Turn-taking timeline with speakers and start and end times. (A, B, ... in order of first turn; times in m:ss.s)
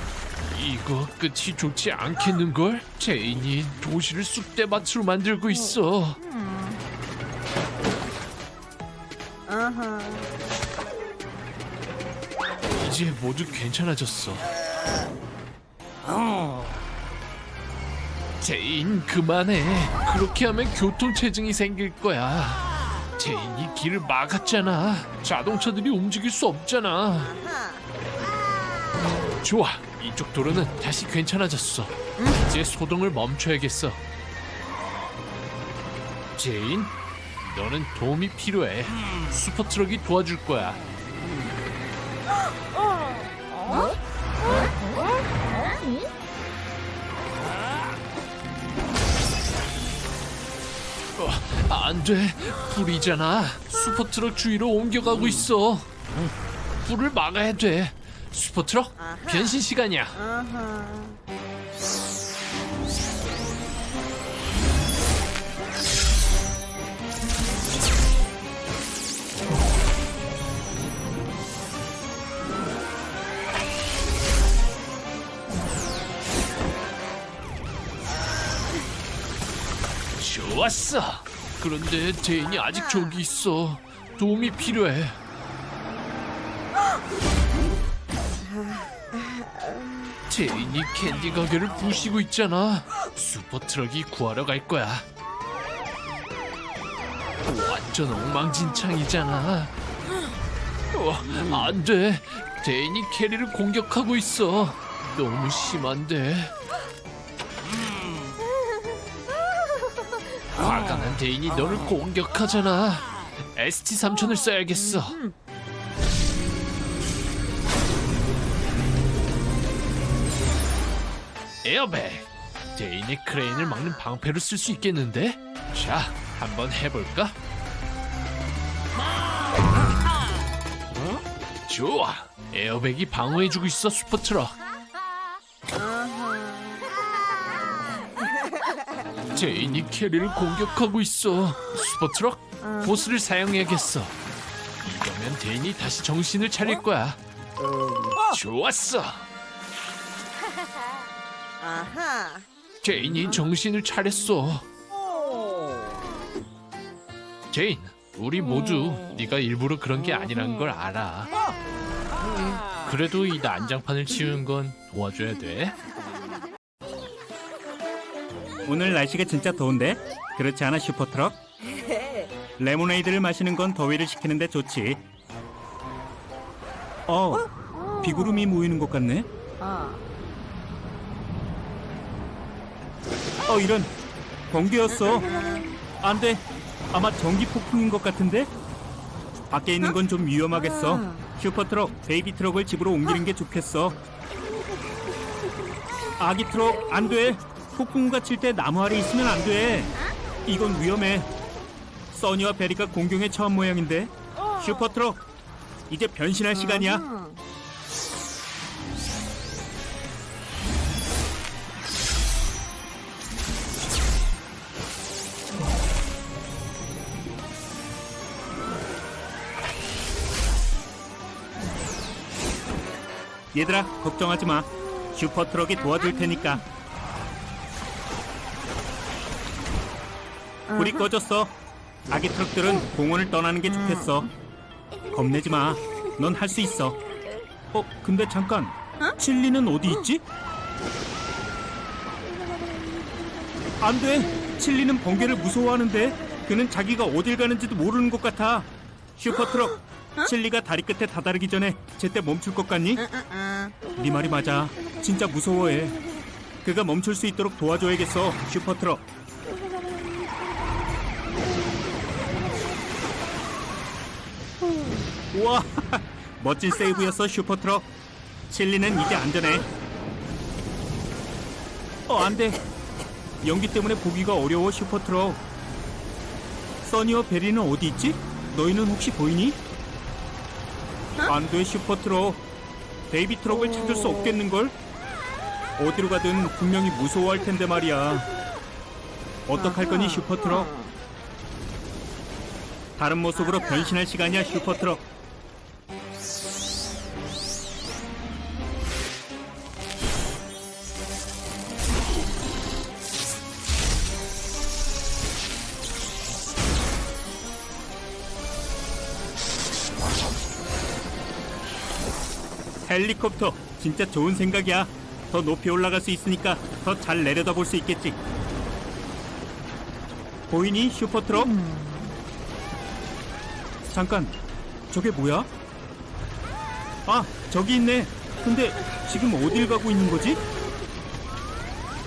0:00.5-0:06.2 A
0:06.2-0:06.8 B
0:09.5-0:10.3 B
0:12.8-0:14.5 A
0:18.4-0:27.3 A
0:27.2-0:27.9 B
0:29.4-0:34.0 A
0:36.4-0:40.8 A
0:51.2-0:55.9 A
0:56.8-1:00.2 A
0:59.0-1:01.2 B
1:20.2-1:25.2 A
1:22.8-1:23.2 B
1:28.6-1:29.7 B
1:30.3-1:35.0 A
1:37.4-1:39.7 A
1:40.9-1:46.5 A
1:50.6-1:55.2 A
1:54.7-1:55.3 B
2:01.6-2:07.4 A
2:11.7-2:14.6 A
2:15.7-2:16.9 B
2:18.4-2:18.7 B
2:19.3-2:24.2 A
2:22.6-2:22.9 B
2:24.8-2:27.2 A
2:28.2-2:29.3 A
2:31.6-2:32.5 B
2:32.8-2:34.7 A
2:37.5-2:41.3 A
2:42.8-2:45.8 A
2:48.7-2:51.4 C
2:51.7-2:52.3 B
2:52.6-2:55.0 C
2:57.1-2:57.5 C
2:57.3-2:58.5 B
2:58.0-2:59.3 C
2:59.6-3:00.0 B
3:03.5-3:03.9 C
3:04.5-3:05.3 C
3:04.9-3:05.8 B
3:06.0-3:08.5 C
3:09.5-3:14.0 C
3:10.5-3:11.2 B
3:16.2-3:19.9 C
3:20.5-3:21.3 C
3:22.1-3:25.2 C
3:25.9-3:27.1 C
3:26.5-3:27.4 B
3:43.5-3:46.6 C
3:50.7-3:51.1 B
3:50.8-3:51.6 C
3:52.1-3:54.3 C
3:53.7-3:54.3 B
3:55.1-3:57.0 C
3:57.7-4:00.2 C
4:03.8-4:13.0 C
4:13.0-4:13.7 B
4:14.0-4:16.0 C
4:16.6-4:19.1 C
4:25.3-4:27.9 C
4:28.5-4:29.7 C
4:32.1-4:32.6 C
4:33.4-4:35.4 C
4:36.8-4:39.6 C
4:41.3-4:42.4 C
4:43.1-4:44.8 C
4:43.7-4:44.4 B
4:45.8-4:48.3 C
4:49.5-4:50.7 C
4:49.6-4:50.9 B
4:53.0-4:55.1 C
5:12.9-5:18.2 C
5:20.5-5:21.5 C
5:21.3-5:22.2 B
5:23.9-5:24.4 C
5:24.9-5:25.5 C
5:27.1-5:30.4 C